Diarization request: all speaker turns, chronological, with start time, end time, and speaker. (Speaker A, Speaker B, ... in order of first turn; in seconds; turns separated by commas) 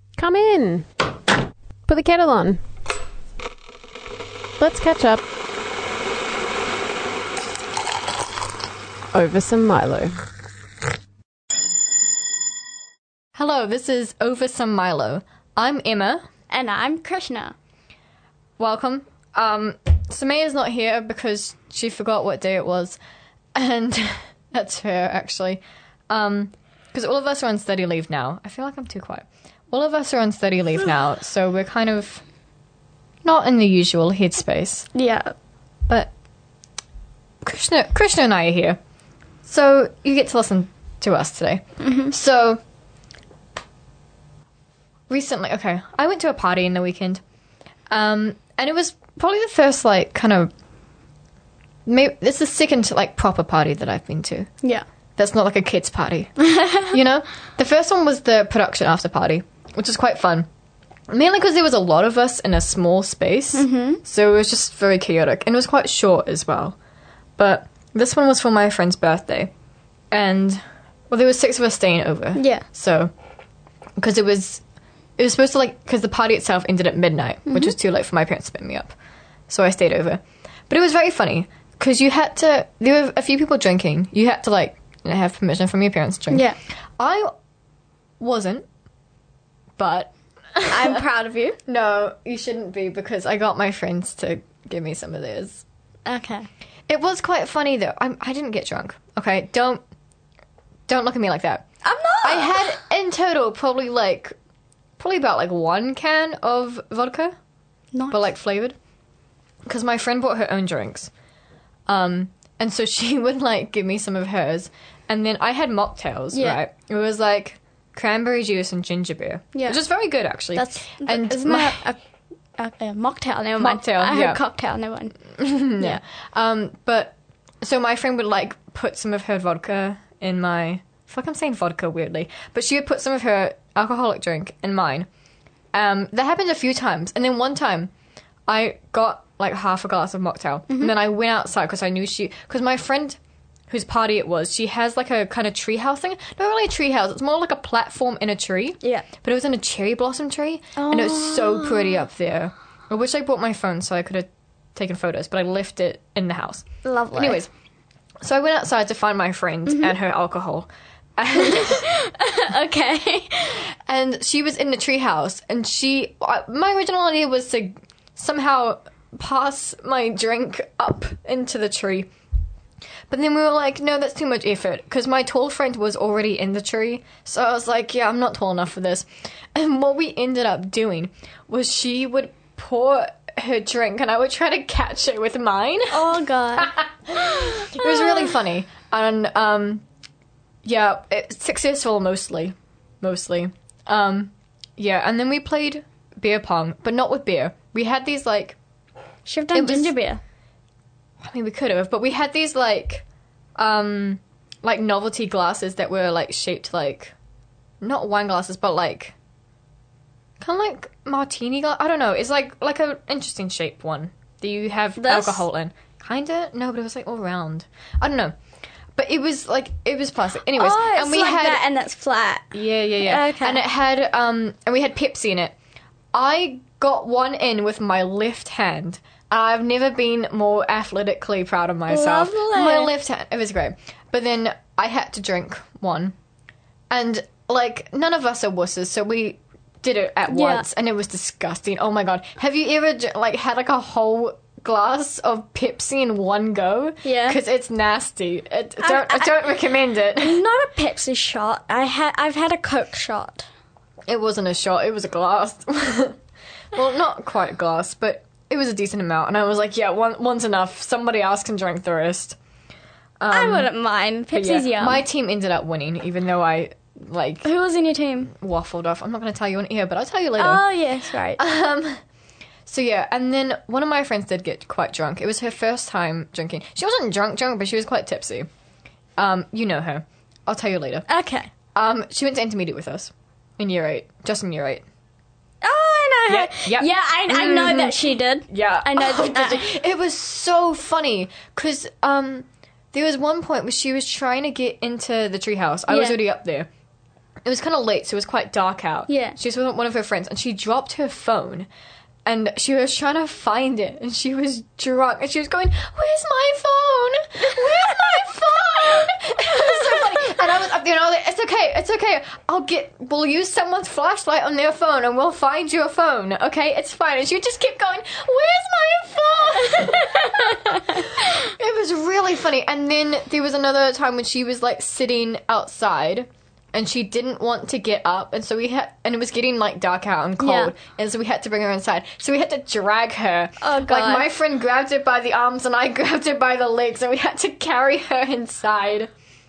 Speaker A: 0.2-0.9, Speaker A: 1.9-2.6, Speaker A: 4.6-5.2, Speaker A: 9.1-10.1, Speaker B: 13.3-16.2, Speaker C: 16.5-17.6, Speaker B: 18.6-23.0, Speaker B: 23.6-32.2, Speaker B: 33.2-34.9, Speaker C: 35.0-35.3, Speaker B: 37.4-38.8, Speaker B: 39.5-42.6, Speaker C: 41.8-42.1, Speaker B: 45.1-47.2, Speaker B: 47.9-50.5, Speaker B: 51.9-54.5, Speaker B: 55.2-60.5, Speaker C: 56.4-56.9, Speaker B: 61.1-66.8, Speaker C: 63.6-64.0, Speaker B: 67.4-69.5, Speaker B: 70.1-73.1, Speaker C: 72.4-72.7, Speaker B: 74.0-74.6, Speaker B: 75.2-78.9, Speaker B: 79.5-86.4, Speaker C: 86.3-86.6, Speaker B: 87.0-87.3, Speaker B: 88.2-88.7, Speaker B: 89.8-91.0, Speaker C: 90.7-91.6, Speaker B: 91.7-95.6, Speaker C: 96.1-96.5, Speaker B: 96.9-99.8, Speaker B: 100.9-101.6, Speaker C: 101.8-102.7, Speaker B: 102.2-104.3, Speaker B: 105.0-107.3, Speaker C: 107.9-108.2, Speaker B: 108.1-108.8, Speaker B: 109.7-111.1, Speaker B: 111.9-121.8, Speaker C: 119.5-119.8, Speaker C: 120.5-122.0, Speaker C: 122.6-125.2, Speaker B: 123.6-124.4, Speaker B: 125.4-135.1, Speaker B: 135.7-137.9, Speaker B: 138.5-143.2, Speaker C: 140.7-140.9, Speaker B: 143.7-157.5, Speaker C: 150.8-152.0, Speaker C: 156.8-157.4, Speaker B: 158.2-161.9, Speaker C: 159.7-159.9, Speaker C: 161.4-163.7, Speaker B: 163.8-172.1, Speaker B: 173.1-189.8, Speaker C: 185.9-188.3, Speaker B: 190.6-198.6, Speaker C: 199.3-200.2, Speaker B: 199.5-199.9, Speaker B: 201.2-203.1, Speaker B: 203.6-207.1, Speaker B: 207.8-209.2, Speaker B: 210.4-218.3, Speaker C: 215.0-215.4, Speaker B: 219.0-221.6, Speaker C: 220.6-223.6, Speaker B: 222.5-225.6, Speaker B: 226.1-236.2, Speaker C: 231.9-232.9, Speaker B: 236.9-250.4, Speaker C: 240.3-240.7, Speaker C: 247.1-247.4, Speaker C: 248.8-249.5, Speaker C: 250.2-253.5, Speaker B: 254.1-256.2, Speaker B: 256.7-262.4, Speaker B: 263.2-263.7, Speaker C: 263.3-265.0, Speaker B: 264.3-267.5, Speaker C: 267.4-268.3, Speaker B: 268.3-270.6, Speaker C: 270.4-271.4, Speaker B: 271.4-272.0, Speaker B: 272.7-278.5, Speaker B: 279.2-281.1, Speaker C: 281.1-281.5, Speaker B: 281.8-284.9, Speaker C: 285.6-289.7, Speaker B: 286.3-288.0, Speaker B: 288.5-296.7, Speaker C: 295.9-296.2, Speaker B: 297.4-301.7, Speaker C: 299.1-299.4, Speaker B: 302.2-339.1, Speaker C: 320.1-321.1, Speaker C: 330.4-330.7, Speaker C: 333.6-334.3